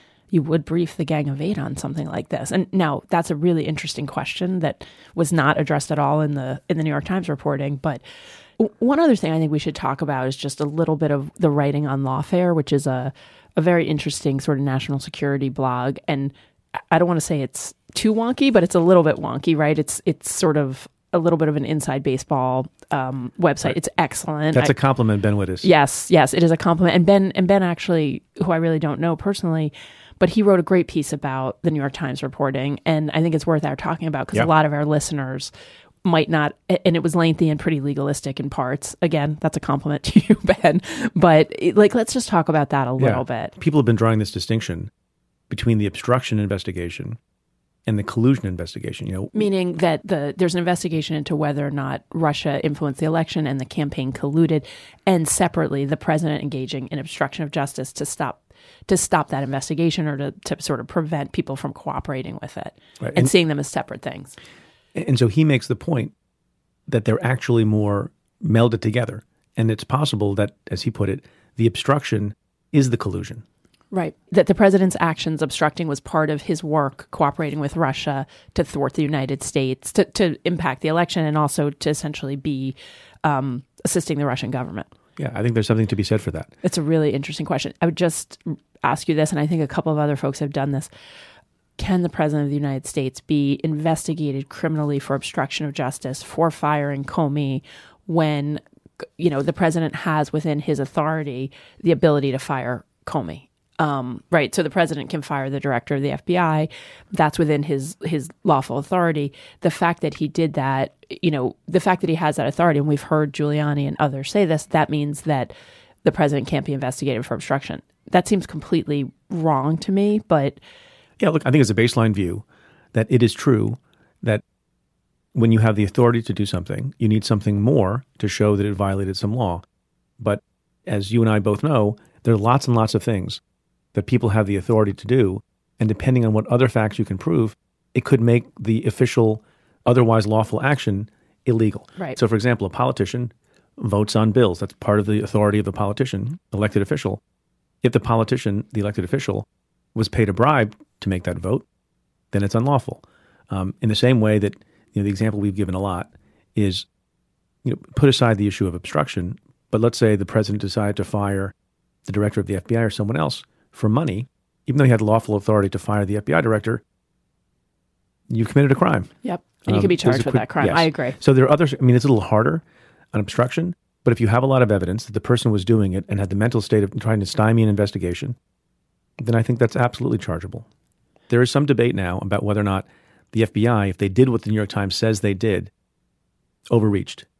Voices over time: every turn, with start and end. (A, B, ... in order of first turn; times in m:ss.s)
0:00.3-0:08.0 A
0:08.6-0:16.3 A
0:16.9-0:24.8 A
0:24.5-0:25.7 B
0:25.6-0:35.5 A
0:36.0-0:43.5 A
0:43.0-0:44.9 B
0:45.5-0:47.2 B
0:47.9-0:49.4 B
0:49.3-1:04.4 A
1:03.0-1:03.3 B
1:04.9-1:06.1 B
1:06.9-1:13.4 B
1:13.9-1:24.9 A
1:25.2-1:26.5 B
1:26.6-1:30.9 A
1:31.8-1:38.6 A
1:39.2-1:55.5 A
1:56.0-2:00.6 A
2:01.2-2:04.4 B
2:05.3-2:09.6 B
2:10.2-2:13.4 B
2:13.9-2:27.2 B
2:27.8-2:31.6 B
2:32.3-2:36.9 B
2:37.6-2:41.5 B
2:42.0-2:46.8 B
2:48.3-2:49.1 B
2:49.2-2:51.2 A
2:49.7-2:58.4 B
2:59.2-3:00.6 B
3:01.3-3:05.7 B
3:06.7-3:07.3 B